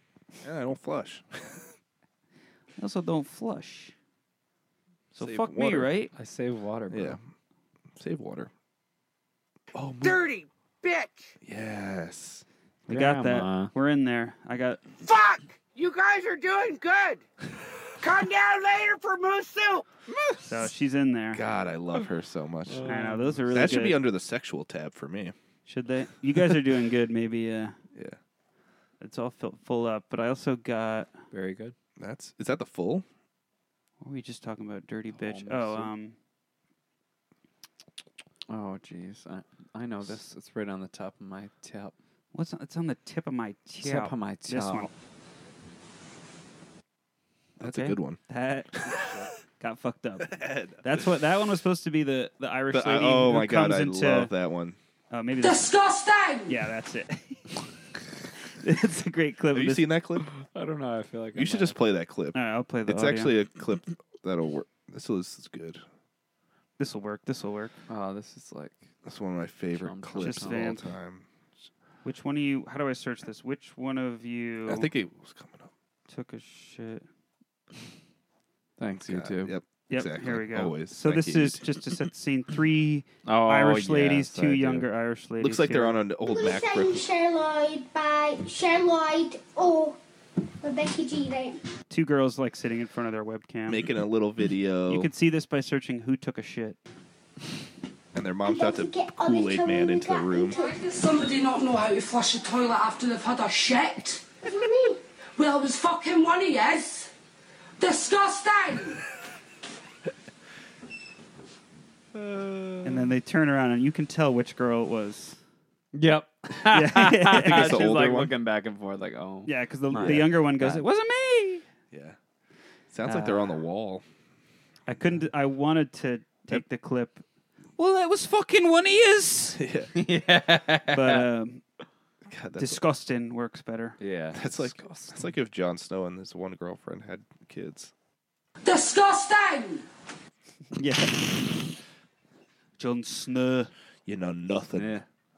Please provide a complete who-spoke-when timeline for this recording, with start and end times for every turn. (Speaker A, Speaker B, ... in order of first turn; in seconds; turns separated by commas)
Speaker A: 0.4-1.6, Speaker B: 2.8-3.9, Speaker B: 5.1-6.1, Speaker A: 5.2-5.9, Speaker C: 6.1-7.2, Speaker A: 6.9-7.2, Speaker A: 8.0-8.5, Speaker A: 9.7-10.3, Speaker D: 10.0-11.3, Speaker A: 11.4-12.4, Speaker C: 12.9-13.7, Speaker B: 12.9-14.8, Speaker D: 15.0-17.2, Speaker D: 18.0-19.9, Speaker B: 20.4-21.4, Speaker A: 21.3-22.9, Speaker C: 22.6-23.9, Speaker B: 22.8-24.0, Speaker A: 23.5-25.3, Speaker B: 25.7-27.8, Speaker B: 29.0-31.2, Speaker C: 31.3-31.7, Speaker A: 32.0-33.0, Speaker B: 34.0-36.1, Speaker C: 35.1-35.9, Speaker C: 38.5-41.9, Speaker B: 42.3-44.9, Speaker C: 43.8-44.9, Speaker A: 47.6-48.2, Speaker B: 47.6-54.3, Speaker A: 50.2-51.0, Speaker A: 52.7-54.8, Speaker B: 55.1-55.7, Speaker E: 55.4-56.5, Speaker B: 56.5-57.5, Speaker B: 58.5-59.9, Speaker A: 59.5-60.3, Speaker C: 60.3-61.8, Speaker A: 61.3-65.8, Speaker B: 62.3-63.3, Speaker B: 66.8-67.7, Speaker C: 67.9-68.9, Speaker A: 69.0-71.2, Speaker C: 69.7-70.8, Speaker B: 70.2-70.8, Speaker B: 72.0-74.9, Speaker A: 74.7-75.7, Speaker B: 76.1-77.0, Speaker C: 78.8-79.5, Speaker A: 79.0-81.7, Speaker B: 79.9-86.0, Speaker C: 83.2-84.9, Speaker A: 85.4-87.0, Speaker F: 86.2-90.0, Speaker F: 90.6-91.6, Speaker B: 91.9-93.9, Speaker A: 93.7-95.1, Speaker B: 94.9-96.8, Speaker A: 98.1-100.6, Speaker F: 98.4-100.8, Speaker E: 100.5-104.2, Speaker F: 104.4-105.0, Speaker E: 105.3-107.1, Speaker E: 107.8-109.0, Speaker A: 112.1-113.1, Speaker B: 112.8-115.4, Speaker C: 115.9-120.8, Speaker B: 116.7-117.9, Speaker A: 117.3-118.3, Speaker B: 119.5-121.6, Speaker A: 120.0-120.2, Speaker A: 121.9-122.2, Speaker A: 122.9-124.0, Speaker B: 123.0-123.6, Speaker B: 124.9-127.2, Speaker B: 127.8-129.6, Speaker A: 129.6-129.9, Speaker C: 129.9-131.3, Speaker B: 130.9-131.6, Speaker A: 132.3-132.8, Speaker B: 132.6-134.0, Speaker C: 134.0-135.3, Speaker A: 134.3-137.9, Speaker E: 138.6-139.8, Speaker B: 140.7-141.3, Speaker B: 142.8-143.7, Speaker A: 144.1-145.0, Speaker C: 144.7-145.0